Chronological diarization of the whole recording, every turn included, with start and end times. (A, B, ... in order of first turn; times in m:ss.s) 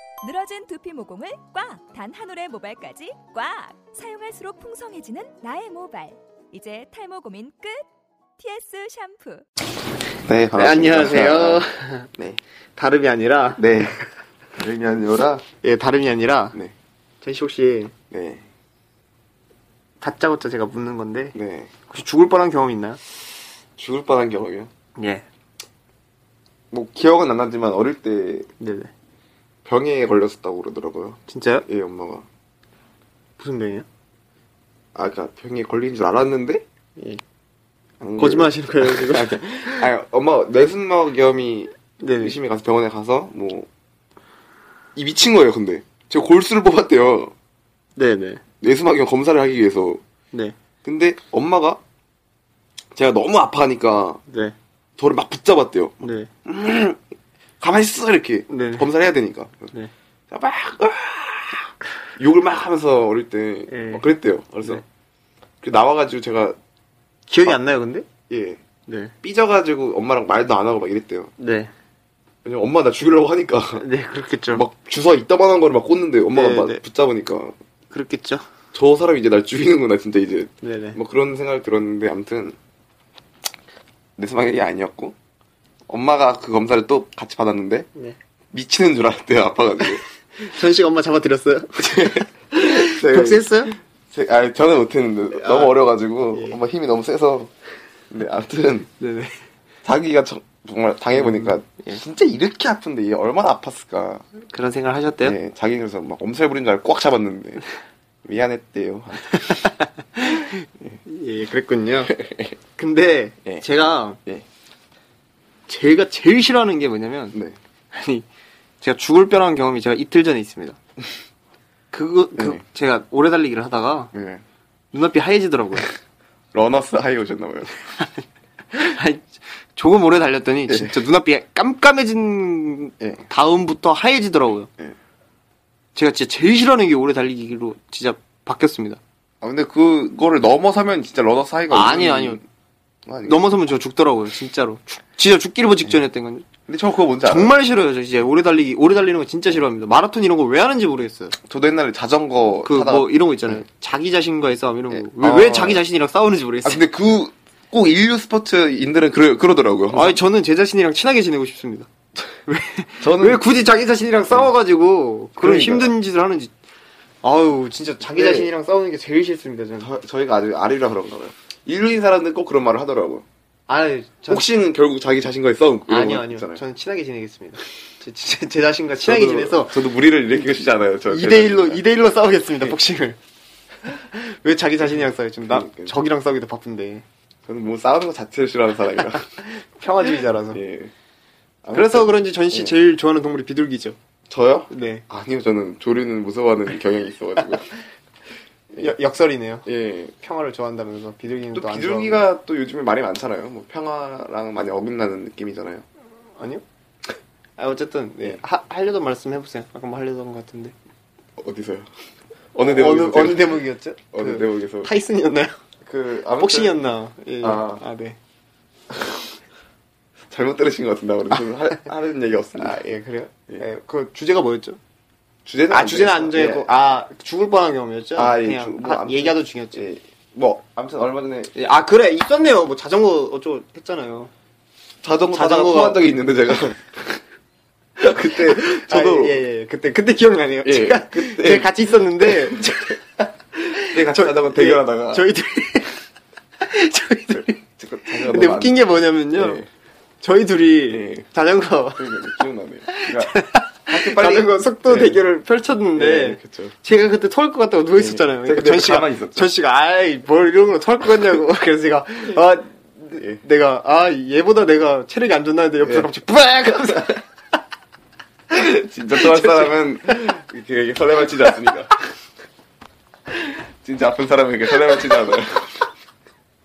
0:00.2-0:07.8 A
0:08.4-0:09.5 A
0:10.2-0:12.4 B
0:10.5-0:12.1 C
0:12.7-0:13.7 C
0:13.6-0:14.0 B
0:14.5-0:15.4 B
0:15.6-0:16.6 C
0:17.2-0:17.9 C
0:18.1-0:18.4 B
0:20.0-0:21.4 C
0:21.3-0:21.7 B
0:21.9-0:23.0 C
0:23.8-0:24.7 B
0:25.0-0:25.2 C
0:26.7-0:28.5 B
0:28.6-0:28.9 C
0:29.6-0:32.3 B
0:31.3-0:31.7 C
0:33.4-0:33.9 C
0:35.0-0:36.6 B
0:37.0-0:37.2 C
0:38.0-0:43.7 B
0:38.2-0:39.9 C
0:42.0-0:42.4 C
0:45.0-0:47.3 B
0:48.0-0:48.4 C
0:48.6-0:50.0 B
0:50.8-0:51.8 B
0:53.0-0:54.2 B
0:54.3-0:54.6 C
0:55.0-0:57.0 B
0:56.0-0:56.3 C
0:57.6-0:59.7 B
0:58.5-0:58.9 C
1:00.3-1:04.8 B
1:03.7-1:04.0 C
1:05.6-1:06.6 B
1:07.3-1:08.1 C
1:08.3-1:08.6 B
1:08.9-1:09.1 C
1:09.2-1:11.3 B
1:11.4-1:11.7 C
1:12.4-1:13.9 B
1:13.8-1:14.6 C
1:14.5-1:17.6 B
1:16.3-1:16.8 C
1:17.9-1:18.5 C
1:18.7-1:22.6 B
1:20.6-1:21.0 C
1:24.2-1:25.2 B
1:25.9-1:27.9 B
1:28.5-1:30.0 B
1:30.4-1:33.8 C
1:31.8-1:37.5 B
1:35.4-1:35.8 C
1:36.3-1:36.6 C
1:38.1-1:38.9 B
1:39.0-1:39.4 C
1:39.8-1:44.2 B
1:41.1-1:42.0 C
1:44.5-1:45.4 C
1:45.2-1:47.7 B
1:48.2-1:49.7 B
1:49.4-1:52.1 C
1:52.0-1:52.6 B
1:52.8-1:54.2 C
1:55.7-1:57.4 C
1:57.9-1:58.3 C
1:58.8-2:00.8 C
2:01.9-2:04.1 C
2:02.3-2:02.6 B
2:04.1-2:04.4 B
2:04.9-2:05.9 C
2:06.5-2:07.7 B
2:08.7-2:14.7 C
2:10.7-2:11.0 B
2:15.9-2:19.0 C
2:19.4-2:22.4 B
2:21.7-2:22.4 C
2:23.1-2:23.5 B
2:23.2-2:26.5 C
2:26.7-2:27.6 B
2:27.2-2:31.3 C
2:31.4-2:33.6 B
2:32.6-2:36.8 C
2:34.9-2:35.8 B
2:36.6-2:40.2 B
2:39.9-2:41.9 C
2:42.5-2:46.5 C
2:43.0-2:43.6 B
2:45.4-2:45.9 B
2:47.2-2:49.9 C
2:48.1-2:48.5 B
2:49.8-2:53.2 B
2:53.7-2:54.5 C
2:54.3-2:56.6 B
2:55.9-2:59.8 C
2:59.0-3:01.8 B
3:01.1-3:03.2 C
3:03.8-3:07.0 C
3:05.4-3:06.0 B
3:07.5-3:09.4 B
3:09.1-3:10.6 C
3:10.5-3:10.9 B
3:11.6-3:12.8 B
3:11.7-3:14.0 C
3:14.3-3:17.8 B
3:14.7-3:15.1 C
3:18.7-3:19.7 C
3:19.6-3:20.1 B
3:20.2-3:22.2 C
3:21.5-3:25.8 B
3:26.4-3:26.6 C
3:27.6-3:30.8 C
3:31.4-3:31.9 B
3:32.5-3:34.9 B
3:32.6-3:35.5 C
3:35.8-3:37.8 B
3:36.4-3:38.2 C
3:38.9-3:39.2 B
3:40.3-3:42.9 B
3:42.6-3:44.8 C
3:45.4-3:46.7 B
3:45.7-3:49.8 C
3:48.2-3:51.5 B
3:51.5-3:54.3 C
3:55.0-3:57.2 B
3:55.3-3:56.0 C
3:58.0-3:59.4 B
3:58.4-4:06.0 C
4:00.6-4:03.0 B
4:03.6-4:05.3 B
4:06.6-4:09.6 C
4:07.3-4:09.7 B
4:10.2-4:12.1 C
4:10.9-4:11.3 B
4:11.9-4:15.2 B
4:12.9-4:27.2 C
4:16.0-4:16.8 B
4:18.0-4:19.5 B
4:25.8-4:26.1 B
4:26.7-4:27.0 B
4:28.5-4:32.0 B
4:29.1-4:30.2 C
4:33.6-4:35.9 B